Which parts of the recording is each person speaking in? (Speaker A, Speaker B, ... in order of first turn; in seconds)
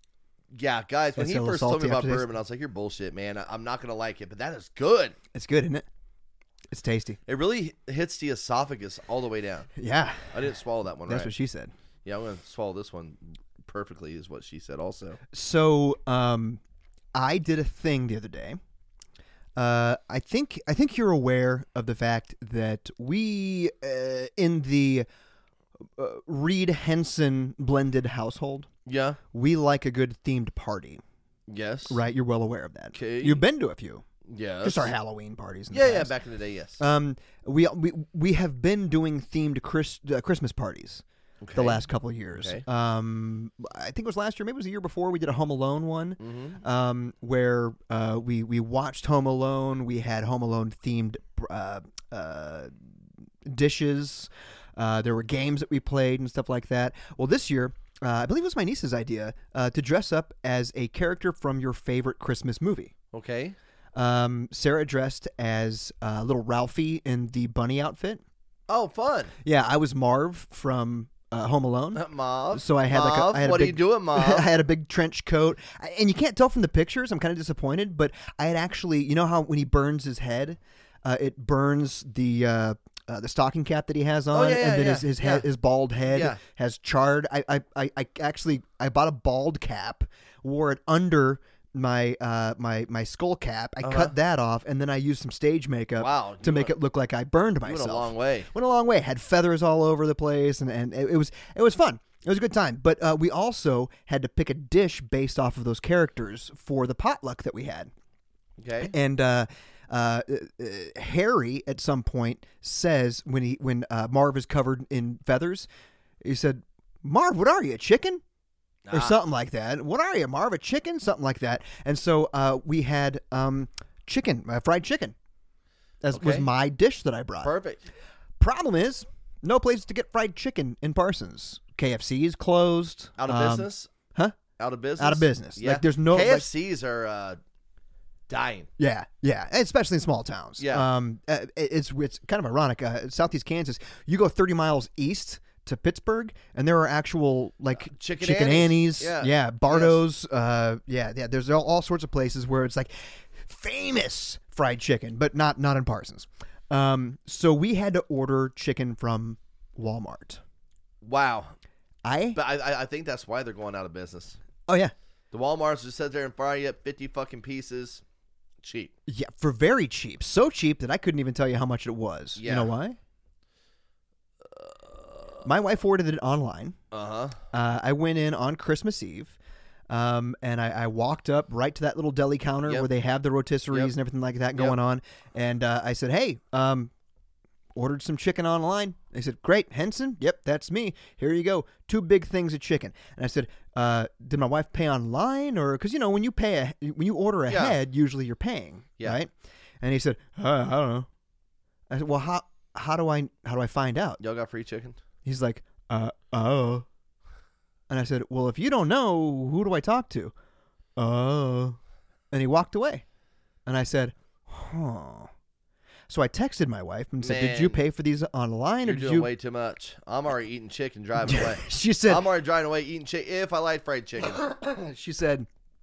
Speaker A: 0.5-5.2, 7.3-9.7, 10.3-11.3, 12.1-15.2, 28.9-29.2, 31.5-32.0, 32.9-33.4, 34.3-34.9, 35.7-36.8, 41.4-42.6, 46.2-46.6, 63.1-63.6, 68.7-69.3, 72.0-74.5, 84.3-85.5, 86.1-86.4, 93.8-94.1, 96.0-96.8, 97.7-98.5, 108.6-108.9, 118.9-119.2, 126.1-126.5, 127.4-127.9, 133.2-133.9, 134.6-137.4, 138.3-138.7, 140.6-140.9, 147.8-150.0, 161.0-161.6, 162.3-164.4, 165.3-168.0, 168.6-168.9, 172.4-172.7, 174.6-175.0, 176.9-177.4, 197.5-197.8, 204.2-205.0, 217.2-217.8, 218.8-224.4
Speaker B: 1.2-2.3, 5.3-5.9, 6.7-7.2, 9.8-10.3, 11.1-11.7, 15.3-16.6, 17.1-18.6, 19.6-25.1, 26.0-28.7, 29.3-31.0, 31.9-34.0, 34.6-36.1, 36.8-41.0, 41.5-52.8, 53.5-62.9, 64.0-68.2, 69.4-107.9, 108.9-115.7, 116.2-118.2, 118.9-125.2, 126.0-127.5, 128.4-134.4, 135.0-136.5, 138.8-160.4, 162.0-162.4, 164.7-164.9, 169.1-173.0, 175.4-176.8, 177.5-179.4, 179.9-186.9, 187.8-201.1, 201.9-204.2, 205.2-206.9, 207.9-210.3, 211.0-211.8, 212.3-213.0, 213.7-215.3, 216.1-219.3, 221.2-222.2, 224.2-225.5